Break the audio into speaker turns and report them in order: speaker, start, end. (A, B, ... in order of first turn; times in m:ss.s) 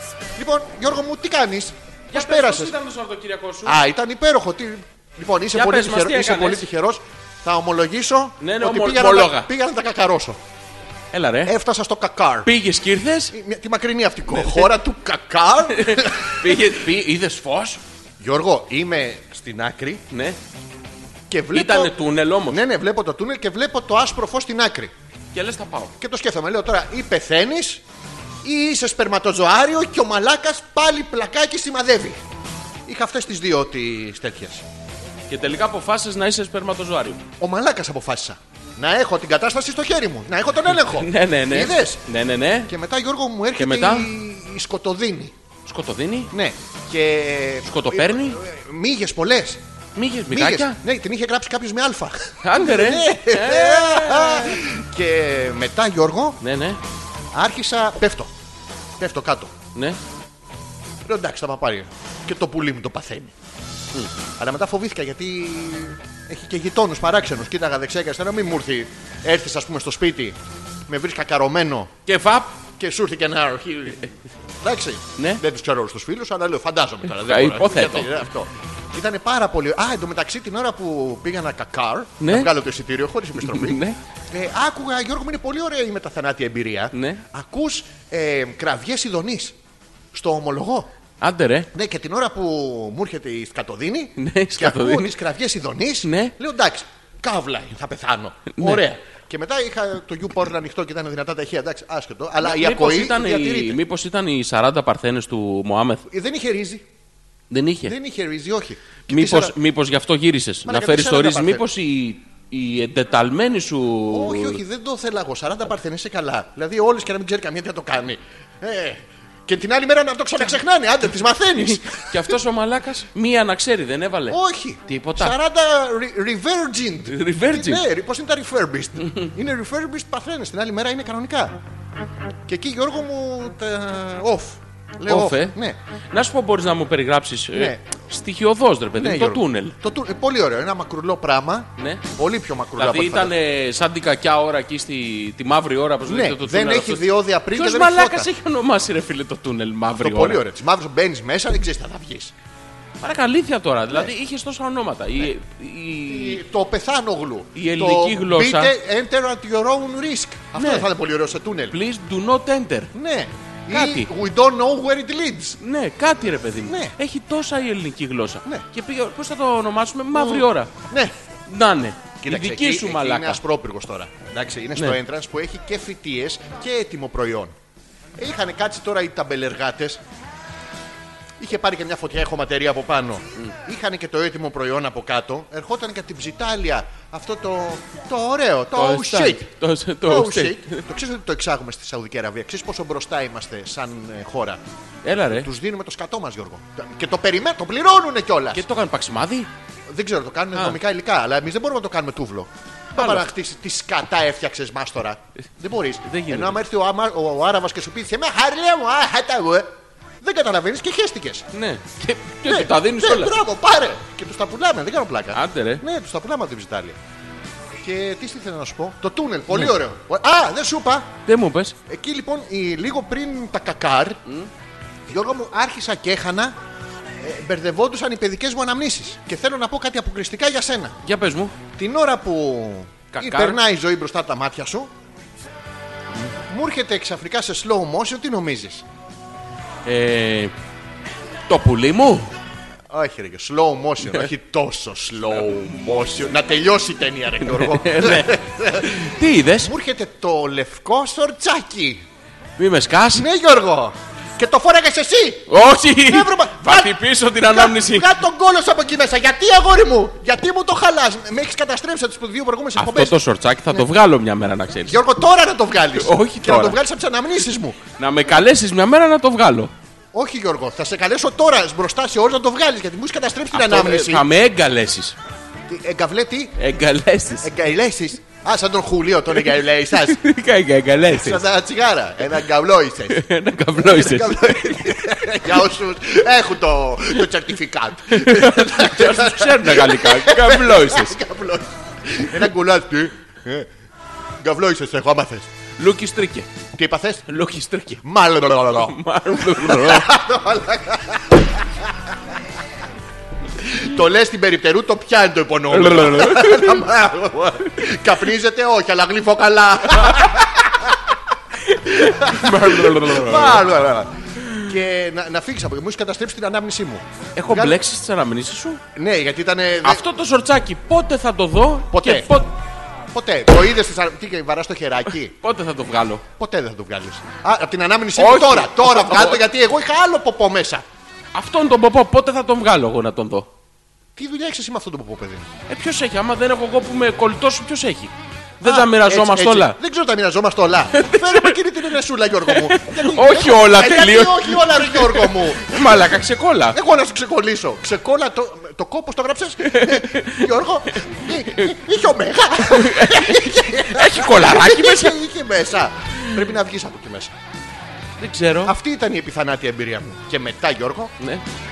0:00.4-0:02.8 A
0:02.1-0:03.8 B
0:03.6-0:10.4 A
0:05.5-0:06.7 B
0:08.4-0:09.5 B
0:11.1-0:11.6 B
0:11.5-0:12.5 A
0:12.4-0:13.3 B
0:13.3-0:16.8 A
0:14.3-0:14.7 B
0:15.7-0:17.8 B
0:18.2-0:20.0 A
0:20.1-0:20.4 B
0:21.3-0:24.9 A
0:21.5-0:22.6 B
0:25.3-0:25.9 B
0:26.0-0:27.8 A
0:28.4-0:32.2 A
0:32.9-0:34.7 A
0:35.3-0:37.2 B
0:37.4-0:42.0 A
0:40.8-0:42.7 B
0:42.7-0:45.4 A
0:43.6-0:44.1 B
0:45.7-0:46.3 B
0:46.3-0:49.6 A
0:47.6-0:48.4 B
0:50.0-0:50.8 B
0:50.3-0:56.4 A
0:52.4-0:54.6 B
0:56.4-0:56.8 B
0:57.3-0:58.3 A
0:59.0-0:59.6 A
1:01.1-1:03.3 A
1:04.4-1:10.4 A
1:10.9-1:11.9 A
1:12.1-1:12.6 B
1:12.8-1:14.1 A
1:14.6-1:23.8 A
1:15.2-1:15.4 B
1:17.1-1:18.3 B
1:22.2-1:22.5 B
1:23.4-1:24.0 B
1:24.3-1:29.6 A
1:26.9-1:27.2 B
1:30.1-1:30.9 A
1:31.2-1:31.7 B
1:31.7-1:43.8 A
1:34.2-1:35.2 B
1:36.0-1:36.4 B
1:38.5-1:38.8 B
1:42.4-1:46.0 B
1:46.1-1:46.9 A
1:47.5-1:48.0 B
1:47.9-1:49.6 A
1:49.1-1:54.6 B
1:50.6-1:51.6 A
1:54.1-2:02.4 A
2:01.6-2:05.4 B
2:04.3-2:11.6 A
2:07.1-2:07.8 B
2:12.5-2:15.8 A
2:15.1-2:15.6 B
2:16.1-2:19.8 B
2:17.5-2:17.8 A
2:19.0-2:23.3 A
2:21.8-2:22.0 B
2:22.8-2:30.4 B
2:26.1-2:28.3 A
2:30.0-2:32.3 A
2:33.0-2:36.4 B
2:36.1-2:41.8 A
2:37.6-2:38.7 B
2:40.6-2:40.9 B
2:41.7-2:42.9 B
2:42.9-2:45.6 A
2:43.7-2:44.1 B
2:45.6-2:50.7 B
2:46.6-2:47.0 A
2:50.1-2:51.1 A
2:51.5-2:53.4 B
2:52.2-2:57.6 A
2:58.2-3:00.0 A
3:01.4-3:09.5 A
3:08.7-3:10.8 B
3:10.0-3:14.6 A
3:15.0-3:15.5 B
3:15.3-3:18.7 A
3:18.5-3:19.5 B
3:19.9-3:31.5 A
3:23.0-3:23.3 B
3:26.0-3:26.6 B
3:31.5-3:33.4 B
3:32.4-3:37.0 A
3:35.3-3:35.8 B
3:37.8-3:41.1 A
3:41.3-3:41.8 B
3:41.9-3:44.2 A
3:45.1-3:46.6 A
3:47.2-3:51.0 A
3:51.0-3:51.6 B
3:51.7-3:54.9 A
3:53.1-3:53.6 B
3:56.5-3:58.8 A
3:59.9-4:00.5 B
4:01.5-4:02.3 B
4:02.9-4:12.0 A
4:07.4-4:09.7 B
4:12.6-4:13.3 B
4:13.1-4:23.2 A
4:15.5-4:18.1 B
4:22.8-4:25.0 B
4:24.8-4:27.8 A
4:26.0-4:26.8 B
4:28.0-4:29.7 B
4:30.1-4:34.3 A
4:33.5-4:35.2 B
4:35.7-4:36.6 A
4:36.6-4:37.5 B
4:37.4-4:40.2 A
4:39.9-4:41.4 B
4:41.1-4:43.2 A
4:43.1-4:45.5 B
4:43.8-4:53.7 A
4:48.1-4:51.2 B
4:54.4-4:55.5 A
4:55.8-4:56.5 B
4:56.8-4:57.3 A
4:57.3-5:00.2 B
4:58.0-5:02.1 A
5:03.6-5:11.1 A
5:05.7-5:07.8 B
5:11.6-5:13.7 B
5:11.9-5:17.8 A
5:14.4-5:14.7 B
5:17.4-5:18.8 B
5:19.0-5:20.0 A
5:19.8-5:22.5 B
5:21.9-5:22.4 A
5:23.1-5:25.4 A
5:25.4-5:26.2 B
5:26.4-5:30.9 A
5:28.2-5:29.4 B
5:31.3-5:33.5 B
5:34.2-5:35.5 A
5:35.7-5:39.8 B
5:38.6-5:46.1 A
5:40.9-5:41.6 B
5:42.5-5:46.8 B
5:46.7-5:57.4 A
5:49.6-5:51.8 B
5:52.6-5:55.2 B
5:58.2-5:58.7 B
5:58.6-6:01.1 A
6:01.2-6:01.4 B